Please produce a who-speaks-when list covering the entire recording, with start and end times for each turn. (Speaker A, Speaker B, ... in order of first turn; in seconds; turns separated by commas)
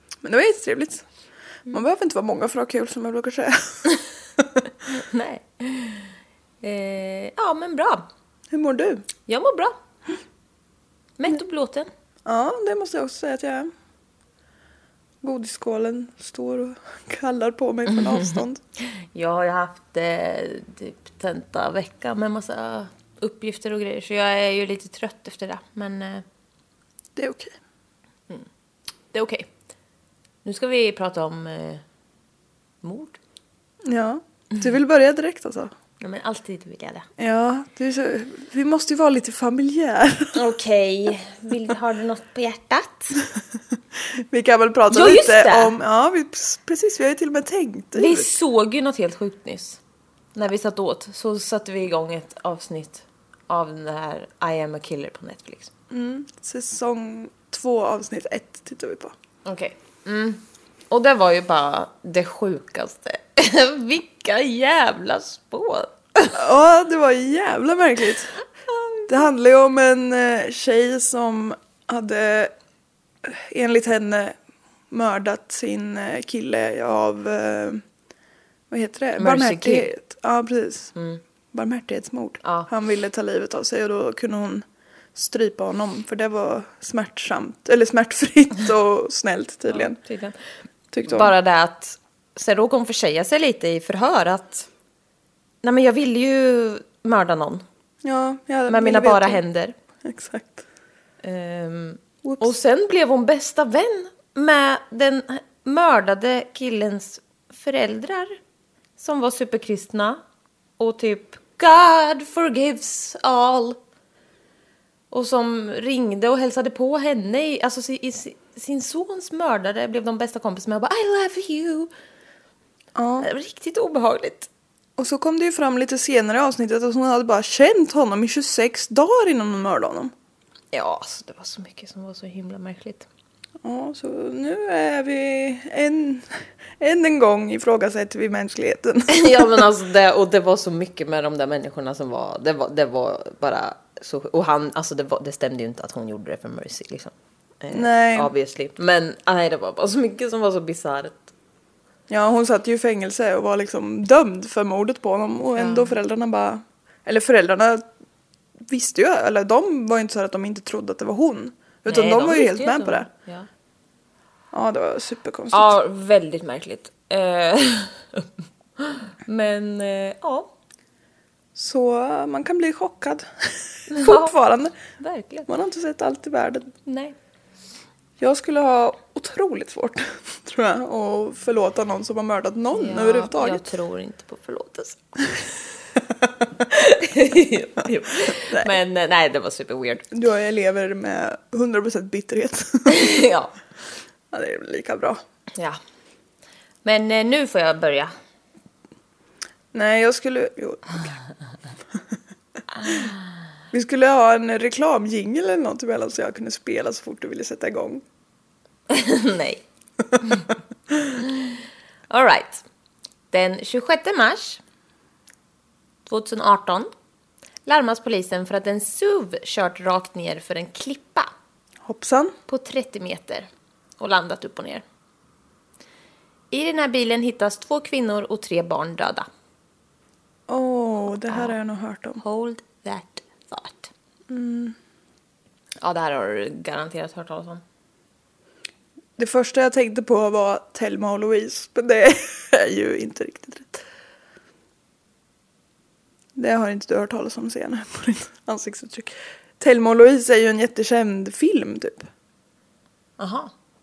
Speaker A: 0.2-1.1, Speaker A: 1.7-3.9, Speaker B: 4.9-8.1, Speaker A: 8.5-9.1, Speaker B: 9.3-9.8, Speaker B: 11.2-11.9, Speaker A: 12.2-13.7, Speaker A: 15.2-18.6, Speaker B: 18.1-26.2, Speaker A: 27.2-27.6, Speaker B: 29.1-29.5, Speaker B: 30.4-31.8, Speaker B: 32.8-33.2, Speaker A: 33.9-35.7, Speaker B: 36.0-37.1, Speaker A: 37.2-40.4, Speaker B: 40.4-43.2, Speaker A: 44.1-48.3, Speaker B: 44.9-45.7, Speaker B: 47.9-49.8, Speaker B: 50.4-55.7, Speaker A: 55.9-59.1, Speaker B: 59.5-66.4, Speaker A: 66.3-68.3, Speaker A: 69.1-72.5, Speaker A: 73.2-74.4, Speaker A: 74.9-77.8, Speaker A: 78.7-80.9, Speaker B: 79.2-79.9, Speaker B: 81.0-81.2, Speaker A: 81.5-90.0, Speaker B: 82.4-82.7, Speaker B: 89.7-90.4, Speaker A: 90.9-91.3, Speaker B: 91.1-94.7, Speaker B: 95.6-97.6, Speaker A: 98.0-99.4, Speaker B: 98.7-99.8, Speaker A: 100.0-100.6, Speaker B: 101.2-108.4, Speaker A: 102.2-102.5, Speaker B: 109.0-110.2, Speaker B: 110.8-113.8, Speaker B: 115.1-121.9, Speaker A: 123.0-123.3, Speaker B: 123.2-124.5, Speaker A: 125.0-130.1, Speaker B: 130.7-133.1, Speaker A: 133.6-139.5, Speaker B: 139.1-151.3, Speaker A: 147.7-148.3, Speaker A: 152.1-157.9, Speaker B: 155.6-155.9, Speaker A: 158.6-163.1, Speaker B: 161.9-163.5, Speaker A: 164.5-165.8, Speaker B: 165.5-170.5, Speaker A: 171.6-174.8, Speaker B: 173.9-174.4, Speaker B: 175.0-175.5, Speaker A: 175.5-176.7, Speaker B: 176.9-177.2, Speaker A: 178.2-183.7, Speaker B: 182.8-185.0, Speaker B: 186.7-190.1, Speaker A: 188.3-188.7, Speaker A: 190.1-193.0, Speaker B: 192.9-193.5, Speaker A: 194.3-195.2, Speaker B: 196.8-198.1, Speaker A: 199.7-201.2, Speaker B: 202.8-203.1, Speaker A: 203.7-208.0, Speaker B: 208.9-209.6, Speaker B: 212.1-212.6, Speaker B: 213.3-214.6, Speaker B: 216.1-216.9, Speaker B: 217.7-221.3, Speaker A: 221.8-222.4, Speaker B: 222.5-223.5, Speaker B: 224.0-224.8, Speaker B: 226.5-229.3, Speaker A: 230.5-232.2, Speaker B: 231.3-231.6, Speaker B: 232.2-233.9, Speaker A: 234.3-234.8, Speaker B: 235.8-237.6, Speaker A: 239.2-243.7, Speaker A: 246.4-252.1, Speaker B: 253.2-253.5